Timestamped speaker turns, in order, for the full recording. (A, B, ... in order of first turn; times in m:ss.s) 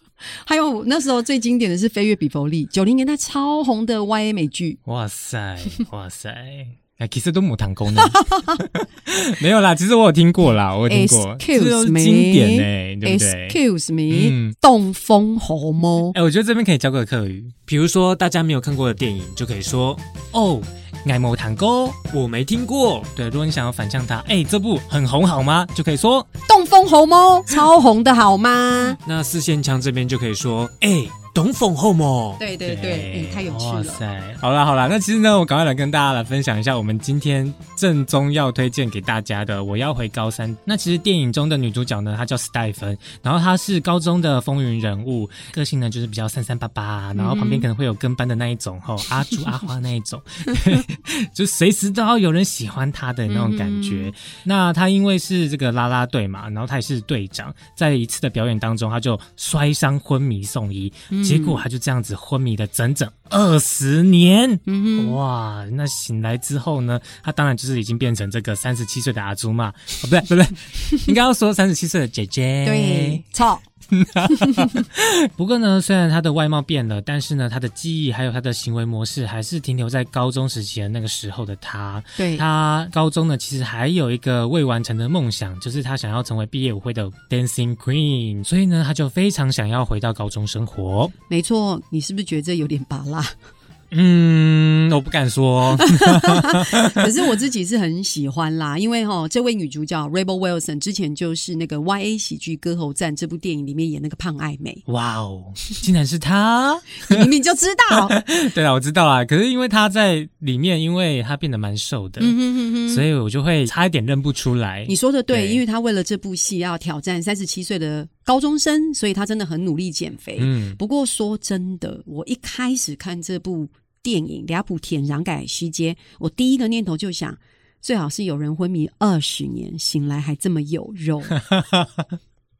0:00.4-0:04.8 A
0:04.8-0:13.6 B
0:08.0-0:08.6 A
0:10.9-0:16.1 A
0:14.1-0:14.6 B
0:16.1-0:26.3 B
0:26.5-0:29.0 A
0:28.8-1:13.2 B
0:32.4-0:34.0 A
0:47.1-0:47.7 A
0:53.3-0:54.1 A
1:01.1-1:01.6 A
1:04.7-1:05.2 A
1:12.6-1:13.6 A
1:13.9-1:31.1 B
1:14.3-1:14.8 A
1:22.2-1:22.4 A
1:31.3-1:33.3 A
1:33.9-1:37.1 B
1:35.8-1:44.8 A
1:44.9-1:47.3 B
1:47.1-1:48.2 A
1:48.1-1:55.6 B
1:52.2-1:53.0 A
1:54.9-2:11.4 A
2:00.4-2:00.8 B
2:11.4-2:12.1 B